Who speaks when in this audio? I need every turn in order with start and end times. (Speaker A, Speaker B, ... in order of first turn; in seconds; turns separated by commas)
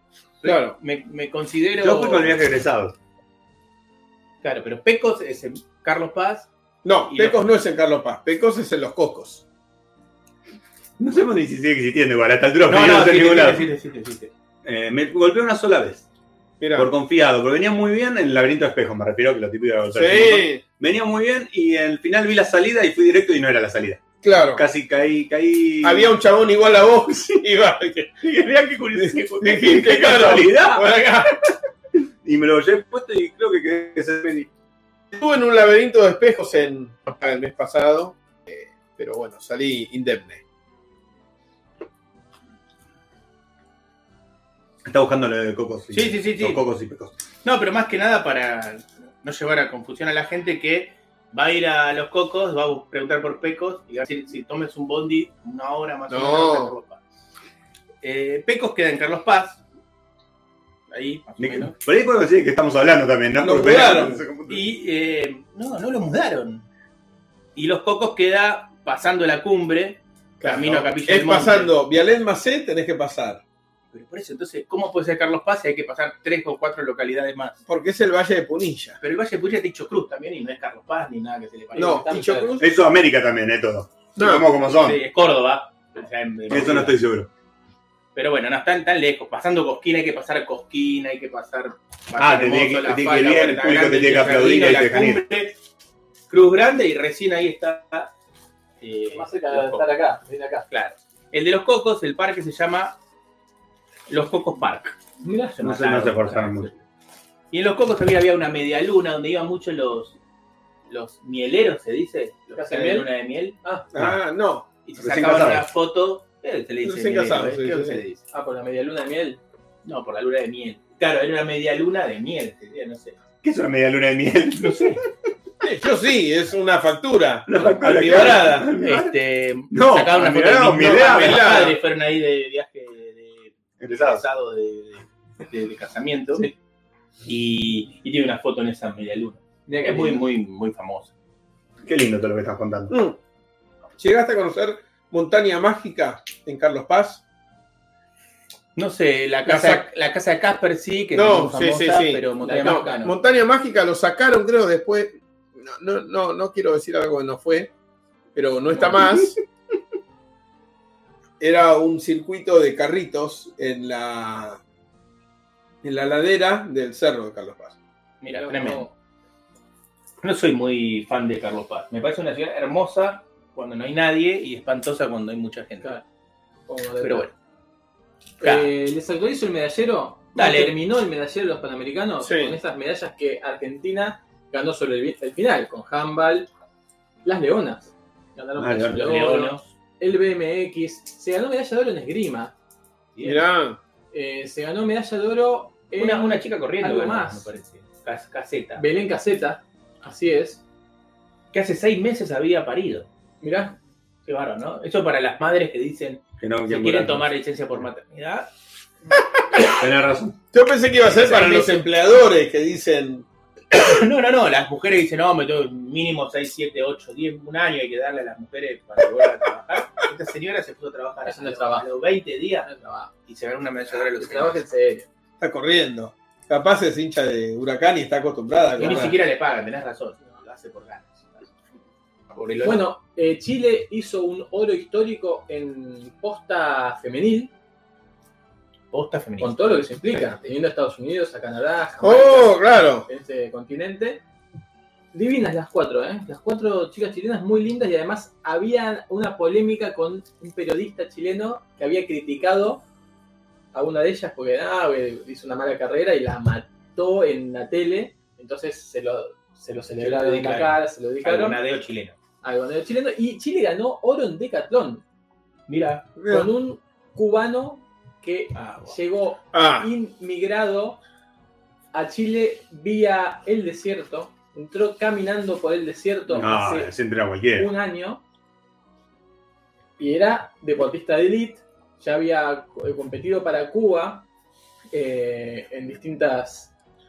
Speaker A: 0.4-2.6, Speaker B: 0.4-0.8, Speaker C: 1.8-3.0, Speaker A: 4.4-6.5, Speaker B: 6.8-9.4, Speaker A: 7.1-7.5, Speaker C: 11.0-13.7, Speaker A: 12.7-14.3, Speaker C: 14.6-16.1, Speaker B: 16.6-16.9, Speaker C: 16.8-26.2, Speaker B: 19.9-20.6, Speaker B: 24.2-24.6, Speaker B: 25.8-28.2, Speaker C: 28.2-31.2, Speaker B: 29.0-31.3, Speaker C: 32.2-34.5, Speaker B: 35.1-40.4, Speaker C: 44.9-47.1, Speaker A: 45.9-46.6, Speaker A: 47.4-57.0, Speaker B: 56.1-56.8, Speaker A: 58.0-59.6, Speaker A: 60.9-61.8, Speaker C: 61.4-64.7, Speaker B: 63.4-64.2, Speaker A: 64.5-66.7, Speaker A: 67.5-71.8, Speaker B: 70.4-73.4, Speaker A: 73.9-77.6, Speaker B: 77.7-79.0, Speaker A: 79.0-82.3, Speaker D: 81.7-82.6, Speaker B: 81.8-82.7, Speaker C: 82.6-85.0, Speaker B: 84.2-84.5, Speaker A: 84.8-87.0, Speaker C: 86.5-87.3, Speaker A: 88.2-95.6, Speaker C: 92.2-95.2, Speaker A: 96.3-98.1, Speaker A: 98.8-99.9, Speaker D: 99.1-100.7, Speaker A: 100.7-103.0, Speaker A: 104.1-105.0, Speaker D: 105.2-105.6, Speaker A: 105.6-106.8, Speaker C: 105.6-106.7, Speaker A: 107.5-110.2, Speaker A: 110.9-113.6, Speaker D: 112.5-113.1, Speaker B: 113.9-114.7, Speaker C: 114.0-114.2, Speaker A: 114.8-118.2, Speaker C: 115.0-115.7, Speaker B: 116.8-118.0, Speaker D: 118.3-119.4, Speaker A: 119.8-123.2, Speaker C: 123.4-125.1, Speaker A: 124.6-125.0, Speaker B: 125.6-128.7, Speaker C: 127.5-129.2, Speaker A: 128.0-136.5, Speaker C: 129.7-131.7, Speaker B: 130.8-131.8, Speaker C: 133.8-134.2, Speaker A: 137.2-141.1, Speaker D: 139.7-140.2, Speaker C: 141.8-142.9, Speaker B: 142.9-143.2, Speaker B: 144.0-147.2, Speaker A: 148.8-153.2, Speaker B: 149.5-149.8, Speaker B: 151.1-157.7, Speaker D: 152.4-153.1, Speaker B: 158.3-159.4, Speaker B: 161.4-164.6, Speaker B: 165.8-167.8, Speaker A: 168.2-168.9, Speaker D: 168.3-168.9, Speaker A: 170.2-176.0, Speaker D: 176.7-177.3, Speaker A: 177.0-177.3, Speaker A: 178.4-178.7, Speaker D: 178.4-186.5, Speaker A: 180.3-180.8, Speaker B: 182.2-182.6, Speaker D: 187.2-192.5, Speaker C: 188.6-189.1, Speaker A: 188.9-189.7, Speaker A: 193.1-193.5, Speaker B: 193.2-193.8, Speaker D: 194.1-197.5, Speaker A: 195.9-198.8, Speaker D: 198.8-200.6, Speaker A: 201.5-203.1, Speaker D: 203.4-203.8, Speaker A: 204.2-208.5, Speaker C: 206.4-207.3, Speaker C: 209.7-210.4, Speaker B: 210.5-213.3, Speaker A: 211.1-211.9, Speaker A: 213.7-222.7, Speaker D: 221.2-221.9, Speaker D: 222.6-223.1, Speaker A: 223.3-224.6, Speaker D: 224.2-225.1, Speaker B: 225.4-229.2, Speaker D: 228.8-229.2, Speaker A: 228.8-231.5, Speaker A: 232.3-232.8, Speaker D: 232.6-237.5, Speaker A: 238.9-240.2, Speaker D: 239.4-244.2, Speaker B: 242.0-243.1, Speaker D: 245.1-252.8, Speaker D: 253.7-261.6, Speaker A: 260.0-262.2, Speaker D: 262.4-265.0, Speaker A: 265.7-266.1, Speaker B: 266.2-266.5, Speaker D: 266.3-271.0, Speaker A: 268.5-269.0, Speaker B: 269.5-269.9, Speaker D: 271.9-276.9, Speaker C: 276.3-277.7, Speaker D: 277.6-278.2, Speaker D: 280.0-284.3, Speaker D: 284.9-286.7